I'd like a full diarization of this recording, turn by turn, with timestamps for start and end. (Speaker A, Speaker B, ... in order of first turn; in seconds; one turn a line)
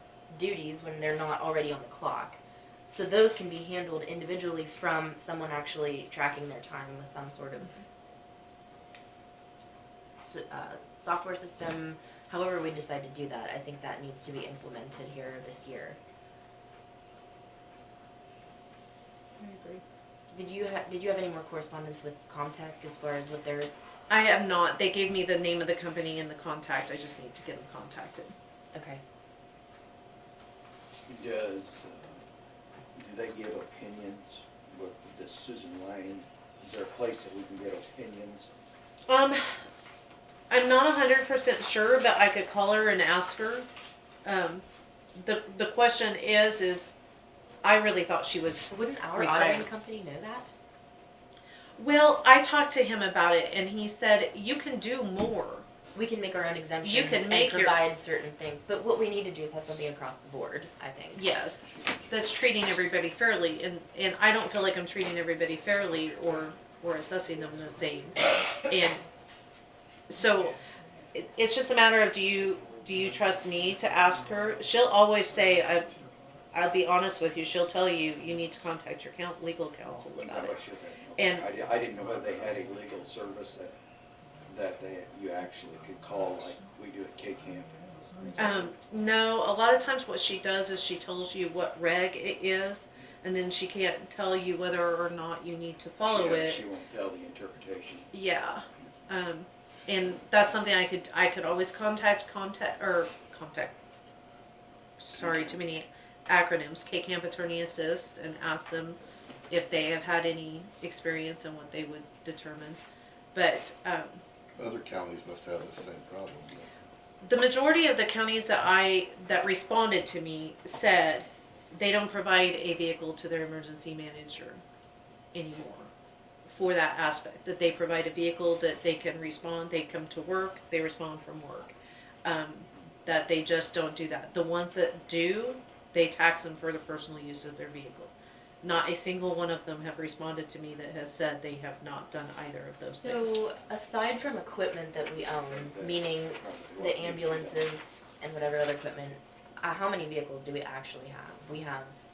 Speaker A: 0.3-2.4
Speaker A: 2.9-7.8
Speaker A: 10.2-16.0
Speaker B: 19.4-19.8
Speaker A: 20.3-23.7
Speaker B: 24.1-28.3
Speaker A: 28.7-29.0
Speaker C: 31.1-32.2
Speaker C: 32.9-38.5
Speaker B: 39.1-39.6
Speaker B: 40.5-43.7
Speaker B: 44.2-47.0
Speaker B: 47.6-49.7
Speaker A: 48.7-50.5
Speaker B: 51.8-55.6
Speaker A: 55.9-61.2
Speaker B: 56.8-57.8
Speaker B: 61.1-69.0
Speaker B: 70.1-70.6
Speaker B: 71.1-75.9
Speaker B: 76.5-80.6
Speaker C: 80.1-83.7
Speaker B: 81.2-81.5
Speaker C: 84.5-88.6
Speaker B: 88.4-96.7
Speaker C: 96.0-98.1
Speaker B: 98.1-103.7
Speaker B: 105.0-112.8
Speaker B: 113.3-114.2
Speaker D: 114.6-116.7
Speaker B: 117.2-124.6
Speaker B: 125.3-125.9
Speaker B: 126.5-143.4
Speaker A: 142.8-151.9
Speaker C: 145.4-147.7